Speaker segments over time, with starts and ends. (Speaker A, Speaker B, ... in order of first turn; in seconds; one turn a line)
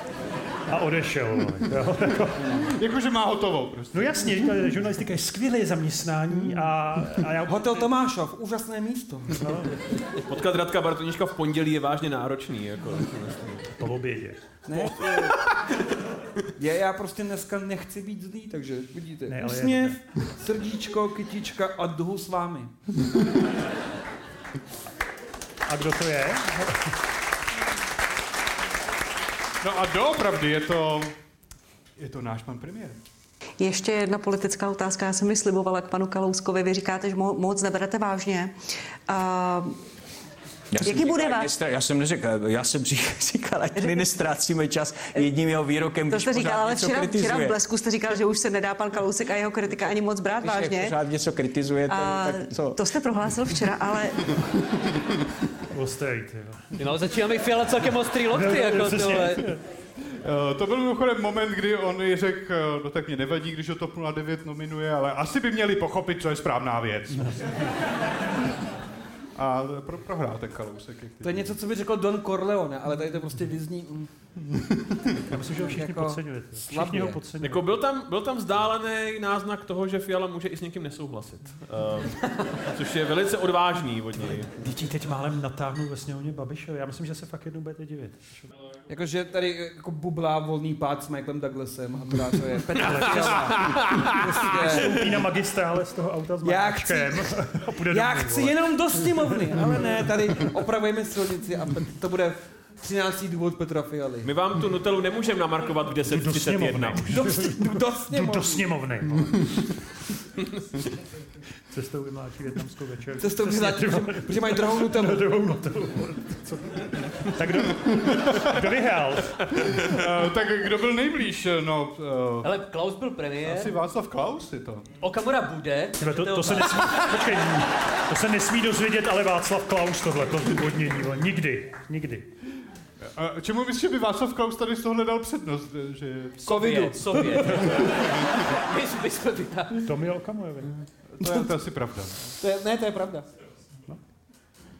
Speaker A: 0.7-2.7
Speaker B: 2.7-4.4
Speaker A: 3.9-7.9
Speaker C: 7.4-9.7
Speaker A: 9.4-9.7
Speaker D: 10.3-13.7
Speaker A: 13.8-14.4
Speaker C: 14.7-15.4
Speaker C: 16.6-22.7
Speaker A: 19.3-20.0
Speaker A: 25.7-26.8
Speaker B: 29.6-31.1
Speaker B: 32.0-33.0
Speaker E: 33.6-38.5
Speaker E: 39.1-39.8
Speaker F: 40.7-47.5
Speaker E: 40.8-41.5
Speaker E: 46.1-50.9
Speaker F: 50.4-52.8
Speaker E: 51.9-54.3
Speaker A: 55.7-56.8
Speaker G: 56.8-59.5
Speaker A: 58.3-59.6
Speaker B: 60.2-67.7
Speaker B: 69.4-71.5
Speaker C: 71.2-74.1
Speaker B: 74.6-75.3
Speaker C: 75.3-77.2
Speaker A: 75.3-77.8
Speaker D: 77.4-84.5
Speaker A: 84.6-88.5
Speaker C: 88.9-95.3
Speaker A: 92.8-93.7
Speaker D: 93.1-94.7
Speaker A: 94.5-100.1
Speaker C: 96.4-104.3
Speaker D: 104.2-107.1
Speaker A: 106.1-109.7
Speaker C: 107.0-108.7
Speaker A: 111.7-119.8
Speaker C: 113.2-115.2
Speaker B: 117.8-118.6
Speaker B: 119.8-122.5
Speaker G: 122.4-123.7
Speaker B: 123.4-124.9
Speaker G: 125.0-127.4
Speaker A: 126.0-132.3
Speaker B: 133.0-136.6
Speaker G: 136.4-139.9
Speaker C: 136.5-137.1
Speaker A: 137.4-137.7
Speaker A: 139.8-140.7
Speaker B: 141.1-142.3
Speaker C: 141.2-141.6
Speaker C: 142.4-143.3